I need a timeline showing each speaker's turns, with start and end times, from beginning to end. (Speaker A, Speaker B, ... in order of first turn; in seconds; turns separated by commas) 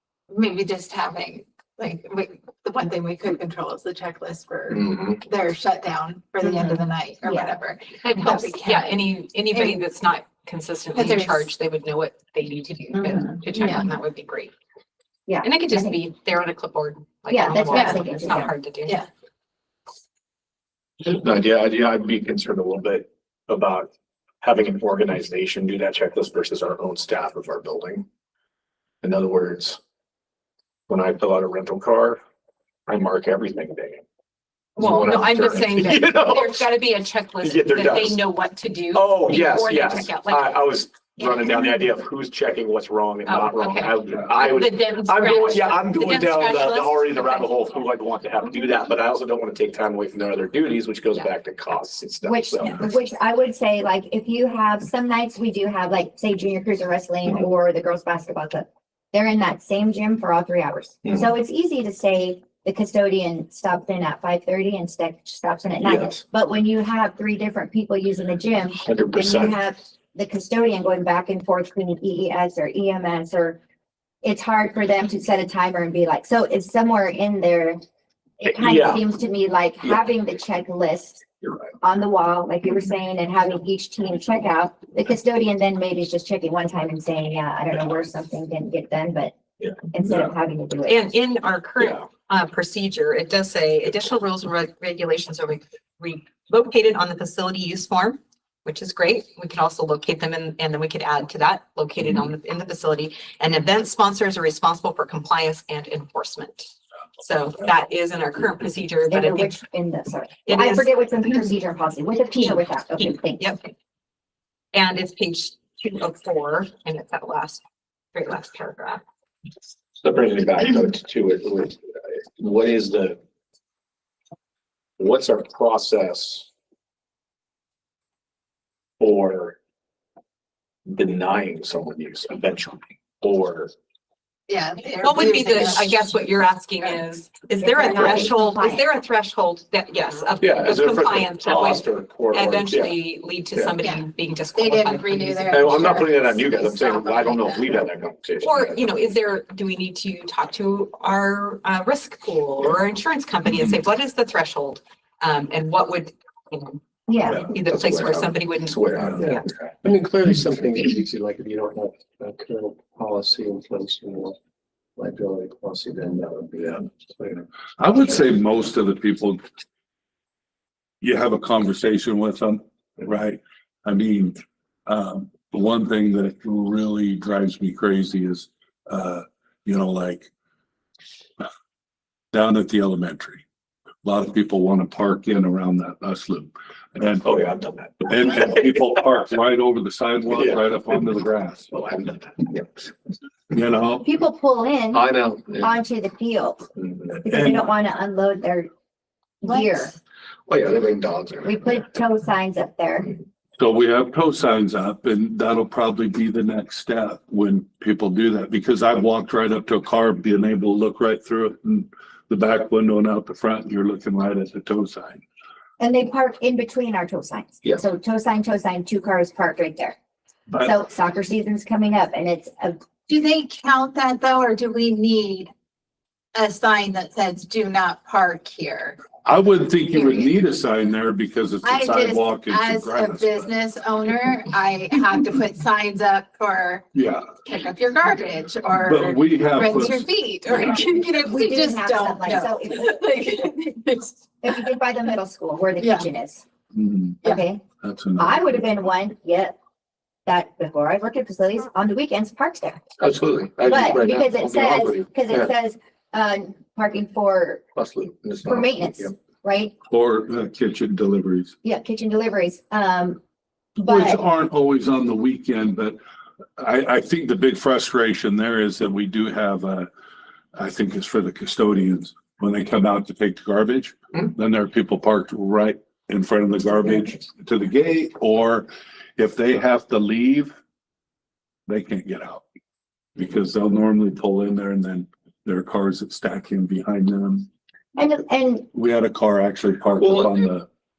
Speaker A: 0.3-9.8, Speaker B: 4.7-5.2, Speaker C: 6.4-7.5, Speaker D: 8.1-14.5, Speaker A: 10.9-11.5, Speaker A: 13.5-13.9, Speaker C: 15.3-16.0, Speaker D: 15.4-19.0, Speaker C: 17.3-18.5, Speaker A: 17.7-18.0, Speaker B: 21.0-23.9, Speaker B: 24.4-28.1, Speaker B: 29.0-29.8, Speaker B: 30.9-32.2, Speaker B: 32.9-34.0, Speaker B: 34.8-36.7, Speaker D: 34.8-41.8, Speaker B: 37.4-38.2, Speaker B: 38.9-52.8, Speaker D: 43.2-47.9, Speaker C: 52.2-73.6, Speaker B: 65.8-66.2, Speaker B: 68.8-69.6, Speaker C: 74.2-77.8, Speaker C: 78.4-81.2, Speaker B: 78.5-79.0, Speaker C: 81.8-89.3, Speaker B: 89.6-90.3, Speaker C: 89.9-91.1, Speaker D: 90.9-109.6, Speaker C: 109.1-113.5, Speaker D: 110.5-111.5, Speaker D: 112.3-113.7, Speaker D: 114.7-117.6, Speaker D: 118.1-119.0, Speaker B: 120.0-121.8, Speaker B: 122.4-123.2, Speaker B: 125.0-126.5, Speaker B: 129.0-129.6, Speaker B: 130.8-133.7, Speaker A: 134.5-136.3, Speaker D: 135.0-146.0, Speaker C: 137.6-138.8, Speaker B: 140.4-142.9, Speaker A: 143.8-147.8, Speaker B: 145.5-148.9, Speaker D: 148.4-159.4, Speaker C: 157.1-157.4, Speaker B: 157.3-159.4, Speaker E: 159.2-164.3, Speaker E: 164.9-167.4, Speaker F: 167.8-169.4, Speaker F: 171.0-180.3, Speaker F: 182.3-183.4, Speaker F: 184.0-187.3, Speaker B: 187.2-188.9, Speaker F: 188.1-191.7, Speaker B: 190.3-190.6, Speaker B: 191.7-192.9, Speaker F: 193.5-194.1, Speaker C: 194.0-196.7, Speaker B: 194.9-195.7, Speaker B: 196.8-197.4, Speaker C: 197.2-198.7, Speaker C: 199.4-199.9, Speaker B: 200.5-201.8, Speaker C: 201.4-203.1, Speaker F: 203.6-215.2, Speaker C: 215.8-219.9, Speaker C: 220.6-222.8, Speaker A: 223.1-225.5, Speaker A: 226.3-229.1, Speaker F: 229.2-233.5, Speaker A: 229.8-230.3, Speaker A: 231.6-236.8, Speaker F: 236.9-237.3, Speaker A: 237.4-244.6, Speaker F: 238.8-240.8, Speaker C: 241.2-243.0, Speaker C: 244.4-246.4, Speaker A: 245.8-246.1, Speaker F: 246.7-247.2, Speaker C: 247.2-247.6, Speaker F: 247.8-248.4, Speaker C: 248.2-249.6, Speaker C: 250.2-252.8, Speaker B: 253.0-255.5, Speaker C: 253.6-257.6, Speaker B: 257.8-259.1, Speaker C: 258.4-259.7, Speaker F: 259.9-261.5, Speaker C: 261.6-263.2, Speaker C: 263.8-264.2, Speaker F: 263.8-266.0, Speaker F: 266.6-269.9, Speaker F: 270.5-280.5, Speaker F: 281.7-282.4, Speaker F: 283.1-287.5, Speaker C: 287.9-288.7, Speaker F: 288.7-290.6, Speaker B: 290.0-290.4